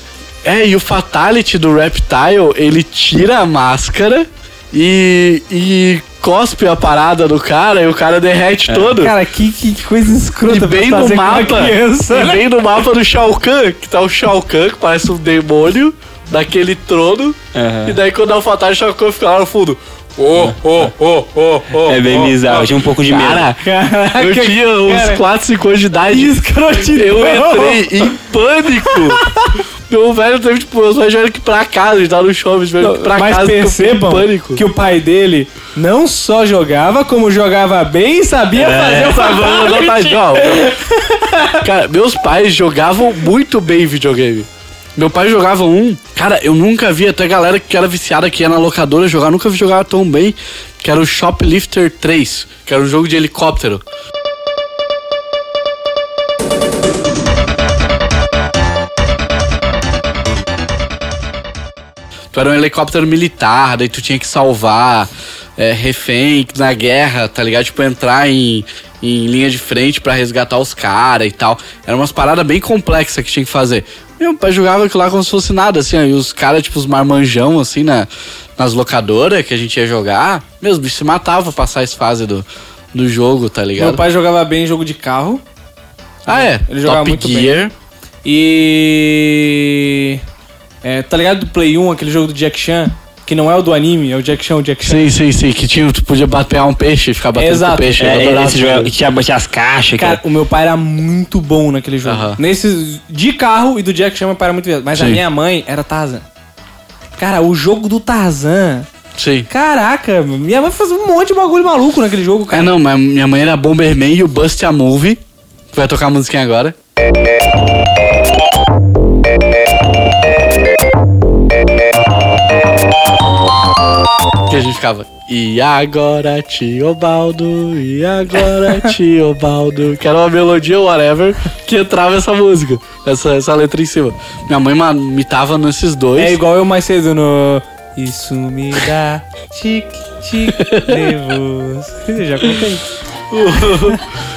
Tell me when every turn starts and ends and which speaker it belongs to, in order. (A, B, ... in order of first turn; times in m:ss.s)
0:00.4-0:09.1 A
0:08.7-0:09.0 B
0:09.0-0:12.4 C
0:10.5-0:23.6 A
0:17.5-0:18.0 B
0:20.3-0:20.9 B
0:21.7-0:23.5 B
0:23.6-0:25.2 C
0:24.1-0:29.3 A
0:26.1-0:28.2 C
0:28.8-0:29.6 C
0:29.9-0:34.6 A
0:32.8-0:41.6 C
0:38.6-0:40.7 A
0:39.0-0:39.8 B
0:41.6-0:53.8 A
1:02.3-1:24.0 A
1:23.8-1:25.4 C
1:26.3-1:27.7 A
1:26.3-1:27.6 C
1:28.2-1:30.2 C
1:30.8-1:35.1 C
1:34.8-1:38.9 A
1:37.4-1:38.0 C
1:38.0-1:40.2 B
1:40.0-1:46.3 C
1:42.0-1:42.4 A
1:44.9-1:45.2 A
1:47.2-1:48.9 C
1:49.2-1:49.5 A
1:49.5-1:52.7 C
1:52.5-1:55.2 A
1:55.7-1:56.8 A
2:04.5-2:16.4 A
2:08.6-2:08.9 C
2:16.2-2:22.8 C
2:20.6-2:21.1 A
2:23.3-2:24.0 A